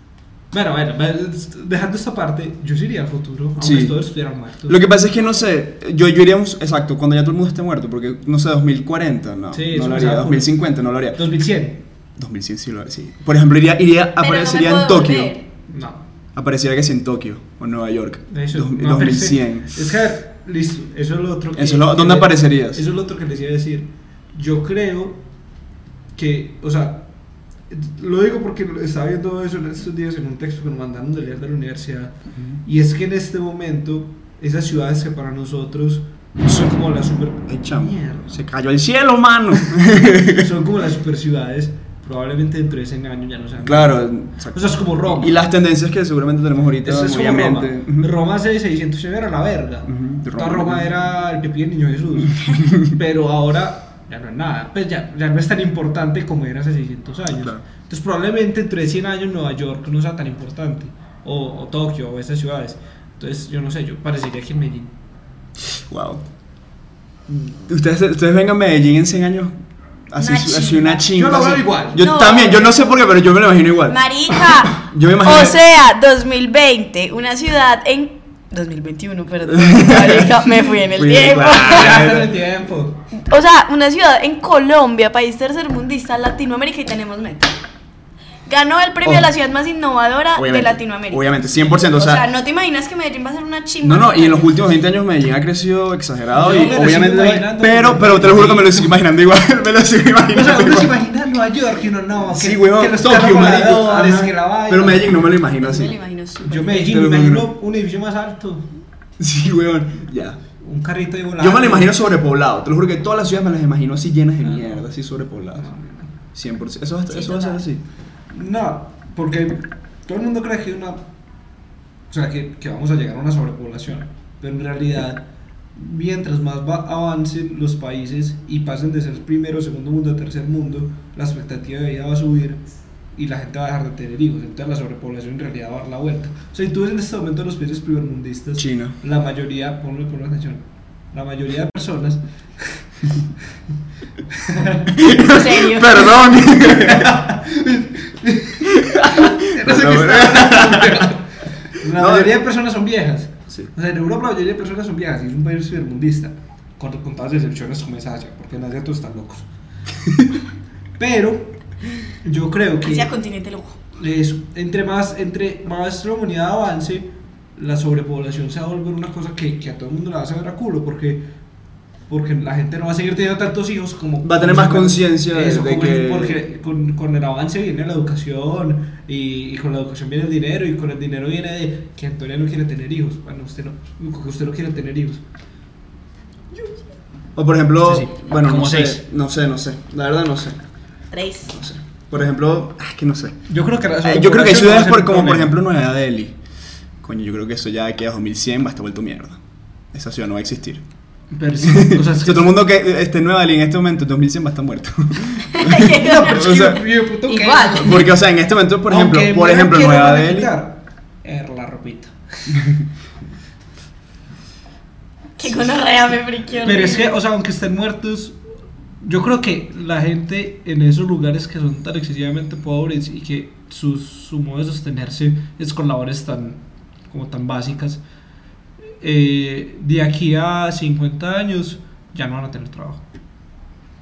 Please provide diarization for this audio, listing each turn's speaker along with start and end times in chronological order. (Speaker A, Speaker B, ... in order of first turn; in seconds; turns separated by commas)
Speaker A: 0.5-4.8, Speaker B: 3.6-4.0, Speaker B: 4.7-11.2, Speaker A: 9.5-11.8, Speaker B: 12.2-15.3, Speaker C: 14.2-15.5, Speaker A: 15.7-16.0, Speaker B: 16.4-19.8, Speaker A: 18.3-25.2, Speaker B: 21.6-22.8, Speaker A: 26.2-27.1, Speaker A: 27.7-32.1, Speaker A: 32.6-38.4, Speaker B: 37.5-40.5, Speaker A: 40.2-45.4, Speaker B: 43.6-48.1, Speaker A: 46.8-64.9, Speaker B: 49.9-50.9, Speaker B: 52.3-53.0, Speaker B: 57.3-57.6, Speaker B: 65.6-66.2, Speaker B: 67.3-69.5, Speaker B: 70.1-75.6, Speaker C: 70.2-71.1, Speaker A: 71.1-72.0, Speaker C: 72.0-73.0, Speaker C: 73.9-82.1, Speaker B: 79.5-82.3, Speaker A: 81.6-83.0, Speaker C: 83.2-87.5, Speaker C: 88.5-94.7, Speaker B: 89.0-89.3, Speaker B: 90.3-92.2, Speaker B: 93.8-101.0, Speaker A: 96.3-99.0, Speaker A: 100.3-105.3, Speaker B: 102.3-106.0, Speaker C: 105.6-106.9, Speaker A: 106.4-108.7, Speaker B: 106.8-107.5, Speaker B: 109.2-110.4, Speaker A: 110.6-112.0, Speaker B: 111.4-115.7, Speaker A: 114.4-114.8, Speaker A: 115.6-116.1, Speaker B: 116.3-117.8, Speaker C: 117.1-117.6, Speaker A: 118.3-121.0, Speaker A: 122.1-132.6, Speaker A: 133.2-142.8, Speaker B: 138.6-139.0, Speaker A: 144.3-145.0, Speaker B: 145.0-147.2, Speaker C: 145.0-146.2, Speaker A: 146.5-159.5, Speaker B: 148.7-151.1, Speaker B: 151.8-152.4, Speaker A: 161.0-161.6, Speaker A: 162.2-163.1, Speaker C: 162.8-163.8, Speaker A: 164.0-171.3, Speaker A: 172.1-185.2, Speaker B: 174.2-176.4, Speaker B: 187.4-190.6, Speaker A: 187.8-189.0, Speaker C: 191.1-191.5, Speaker B: 191.5-193.4, Speaker A: 193.5-195.6, Speaker B: 194.0-196.4, Speaker B: 197.0-199.4, Speaker B: 199.9-200.8, Speaker A: 201.3-202.6, Speaker B: 201.6-206.8, Speaker C: 205.5-208.0, Speaker A: 205.9-208.1, Speaker B: 207.8-210.5, Speaker A: 208.9-212.5, Speaker C: 215.4-217.2, Speaker A: 216.6-218.4, Speaker A: 219.0-228.0, Speaker A: 229.0-233.0